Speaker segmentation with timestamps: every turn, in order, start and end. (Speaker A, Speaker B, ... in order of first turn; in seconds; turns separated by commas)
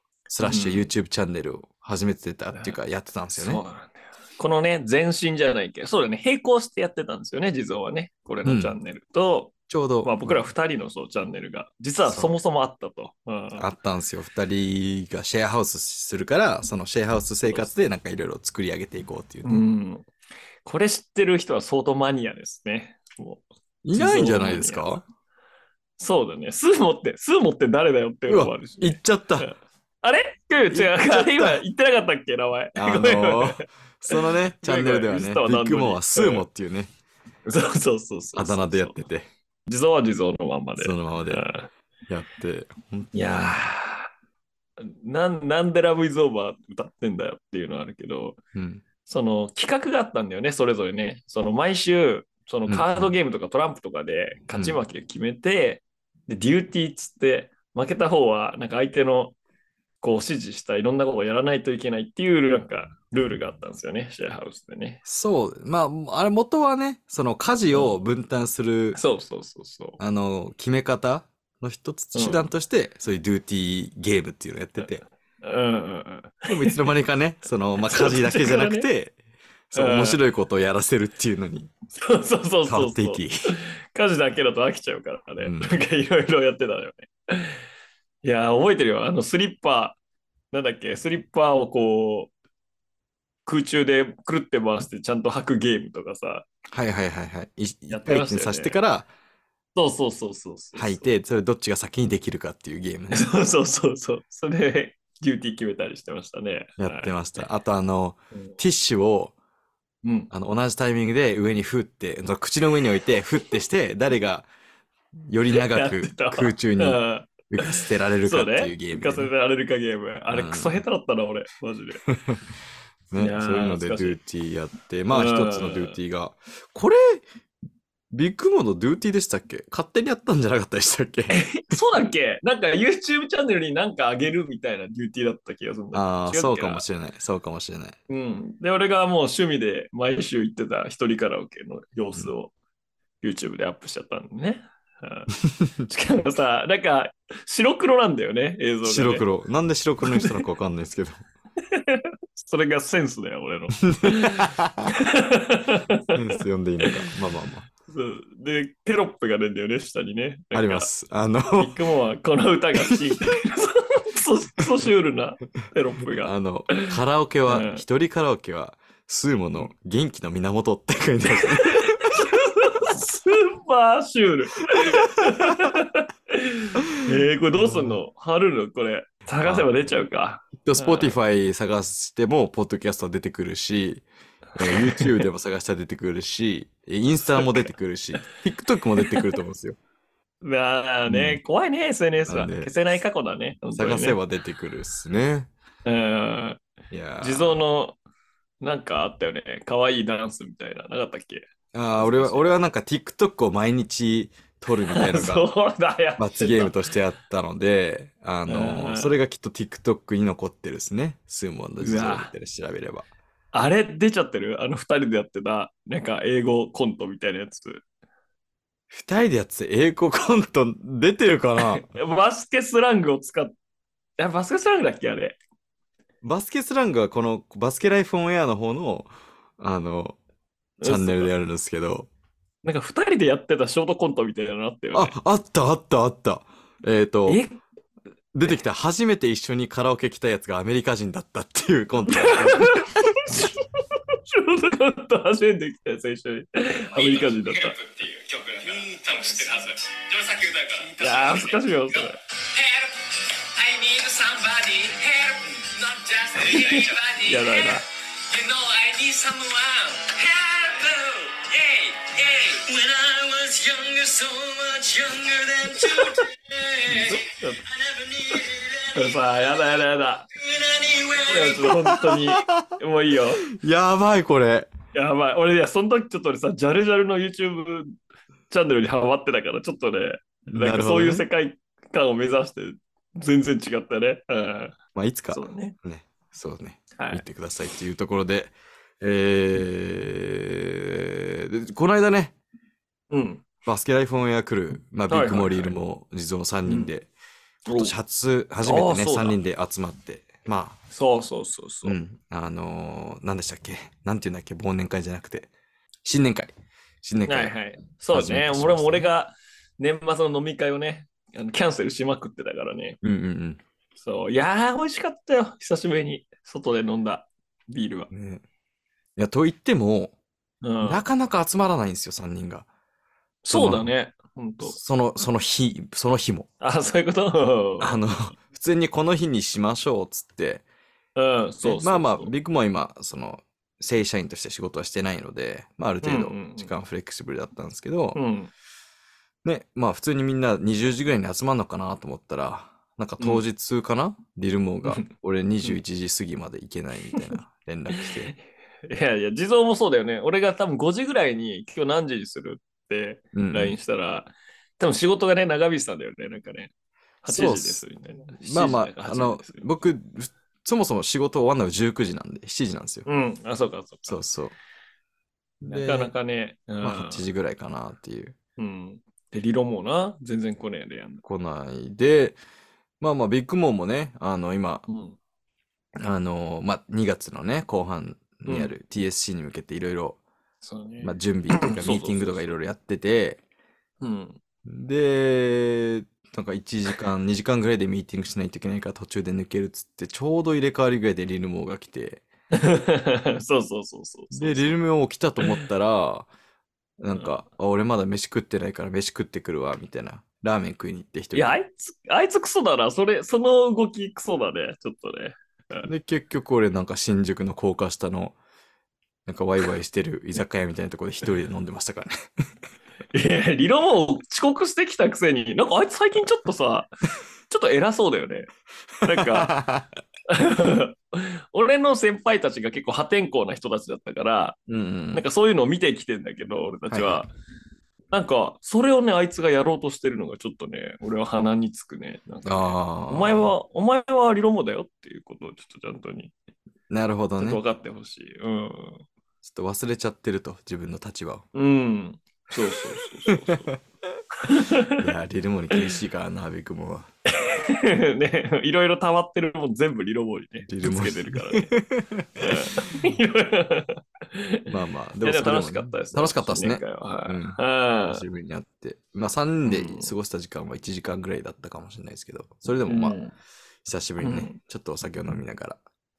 Speaker A: 0.3-3.6, Speaker B: 0.4-0.9, Speaker B: 3.3-13.7, Speaker A: 8.4-8.8, Speaker A: 9.7-10.4, Speaker A: 12.0-12.3, Speaker A: 13.6-19.6, Speaker B: 17.4-17.7, Speaker B: 19.4-20.1, Speaker B: 20.6-24.9, Speaker A: 23.8-25.0, Speaker B: 26.0-36.5, Speaker A: 28.3-29.5, Speaker A: 30.7-31.6, Speaker A: 32.8-36.9, Speaker B: 37.5-39.0, Speaker A: 38.4-39.3, Speaker B: 39.7-41.7, Speaker A: 40.8-41.4, Speaker A: 42.1-43.6, Speaker B: 43.1-44.1, Speaker B: 44.8-48.4, Speaker A: 48.5-48.8, Speaker B: 49.0-59.3, Speaker A: 52.7-53.1, Speaker A: 54.5-54.8, Speaker B: 60.0-65.0, Speaker A: 65.0-69.0, Speaker B: 69.0-70.0, Speaker A: 70.0-75.0, Speaker B: 72.1-72.5, Speaker B: 75.4-76.8, Speaker A: 76.5-79.2, Speaker B: 77.9-78.9, Speaker A: 79.7-81.7, Speaker B: 79.7-80.2, Speaker B: 81.9-87.5, Speaker A: 82.7-83.5, Speaker A: 85.4-85.8, Speaker B: 88.2-90.0, Speaker B: 90.5-92.3, Speaker B: 93.5-96.5, Speaker A: 96.7-99.1, Speaker B: 97.9-98.8, Speaker B: 99.7-101.1, Speaker A: 100.7-103.3, Speaker B: 103.1-107.5, Speaker A: 106.8-109.3, Speaker B: 110.0-110.3, Speaker A: 110.3-114.5, Speaker A: 115.3-119.3, Speaker B: 115.5-122.0, Speaker A: 120.3-120.8, Speaker A: 122.1-122.4, Speaker A: 123.1-127.2, Speaker B: 123.2-124.2, Speaker B: 125.1-126.0, Speaker A: 128.1-131.8, Speaker B: 131.3-136.8, Speaker A: 135.9-138.0, Speaker B: 138.1-142.5, Speaker B: 143.2-145.3, Speaker B: 145.9-149.2, Speaker A: 148.8-151.2, Speaker B: 150.0-150.3, Speaker B: 151.7-157.1, Speaker A: 153.9-154.9, Speaker A: 156.1-157.7, Speaker B: 157.9-160.9, Speaker A: 160.5-161.8, Speaker B: 161.6-166.9, Speaker A: 166.0-172.2, Speaker B: 167.5-167.8, Speaker B: 171.4-181.2, Speaker A: 174.8-175.7, Speaker A: 177.1-178.0, Speaker A: 179.4-179.7, Speaker A: 180.6-184.0, Speaker A: 184.6-189.8, Speaker B: 184.6-185.2, Speaker B: 187.3-187.7, Speaker B: 190.4-194.2, Speaker A: 191.1-191.4, Speaker A: 192.3-192.7, Speaker A: 193.7-195.5, Speaker B: 195.8-196.6, Speaker A: 196.9-197.6, Speaker B: 197.2-198.0, Speaker B: 198.6-202.6, Speaker A: 201.7-205.5, Speaker B: 204.9-206.8, Speaker A: 206.2-213.1, Speaker B: 208.5-209.2, Speaker B: 211.8-212.3, Speaker B: 213.5-217.8, Speaker A: 218.9-221.9, Speaker B: 221.6-223.5, Speaker B: 224.2-225.4, Speaker A: 226.2-230.2, Speaker B: 230.8-231.3, Speaker A: 230.8-232.1, Speaker B: 232.6-235.1, Speaker A: 234.9-237.4, Speaker B: 237.3-237.6, Speaker A: 238.3-243.0, Speaker B: 242.1-243.6, Speaker B: 244.3-247.8, Speaker C: 246.9-269.4, Speaker B: 251.0-252.2, Speaker B: 256.4-257.8, Speaker B: 266.9-267.6, Speaker B: 268.9-270.2, Speaker C: 270.3-271.8, Speaker B: 271.3-273.4, Speaker A: 272.0-272.7, Speaker A: 273.5-274.7, Speaker B: 274.9-277.9, Speaker B: 278.5-284.8, Speaker A: 280.5-281.3, Speaker A: 284.9-292.3, Speaker B: 285.3-285.8, Speaker B: 287.0-287.2, Speaker B: 293.1-293.4, Speaker A: 293.6-297.1, Speaker B: 295.1-295.7, Speaker B: 296.6-296.9, Speaker B: 297.6-297.9, Speaker A: 297.7-300.8, Speaker B: 298.6-299.4, Speaker B: 300.9-301.9, Speaker A: 301.8-305.5, Speaker A: 306.0-307.5, Speaker B: 307.3-313.0, Speaker A: 308.1-309.1, Speaker A: 313.0-313.6, Speaker B: 314.0-318.1, Speaker A: 318.1-318.4, Speaker A: 319.1-320.1, Speaker B: 320.6-321.0, Speaker A: 320.8-322.7, Speaker B: 323.4-324.8, Speaker A: 323.5-323.9, Speaker A: 324.6-326.5, Speaker B: 326.6-328.0, Speaker A: 327.8-330.6, Speaker B: 331.1-332.3, Speaker A: 331.6-338.2, Speaker B: 336.0-336.7, Speaker B: 338.1-338.5, Speaker A: 339.4-348.3, Speaker B: 344.8-345.1, Speaker B: 348.9-356.7, Speaker A: 353.3-353.8, Speaker B: 357.2-359.7, Speaker A: 357.3-357.8, Speaker A: 358.4-363.1, Speaker B: 363.1-364.2, Speaker A: 364.1-364.5, Speaker A: 365.6-366.1, Speaker B: 365.6-367.2, Speaker A: 366.8-368.4, Speaker B: 368.6-371.2, Speaker A: 371.2-372.4, Speaker A: 373.0-374.8, Speaker B: 374.9-375.2, Speaker A: 376.0-380.2, Speaker B: 378.5-378.7, Speaker B: 380.6-382.5, Speaker A: 381.0-383.4, Speaker B: 384.0-384.4, Speaker A: 384.6-392.2, Speaker B: 392.5-394.8, Speaker A: 394.3-396.3, Speaker A: 397.0-401.6, Speaker B: 401.3-405.9, Speaker A: 405.9-408.4, Speaker A: 409.2-412.1, Speaker B: 413.1-416.9, Speaker B: 417.5-418.5, Speaker B: 419.0-419.5, Speaker A: 419.0-419.9, Speaker B: 420.3-424.6, Speaker A: 424.7-425.2, Speaker B: 425.1-427.3, Speaker A: 426.9-427.2, Speaker B: 428.1-436.3, Speaker A: 432.4-433.5, Speaker A: 436.9-437.6, Speaker B: 437.4-439.0, Speaker A: 439.4-441.4, Speaker B: 441.5-443.7, Speaker A: 443.3-443.8, Speaker B: 444.4-445.1, Speaker A: 445.0-447.1, Speaker B: 447.3-451.7, Speaker A: 450.7-453.1, Speaker B: 452.4-454.7, Speaker A: 454.7-463.2, Speaker B: 455.2-458.2, Speaker B: 459.6-460.1, Speaker B: 462.9-463.3, Speaker A: 463.8-465.8, Speaker B: 464.2-464.6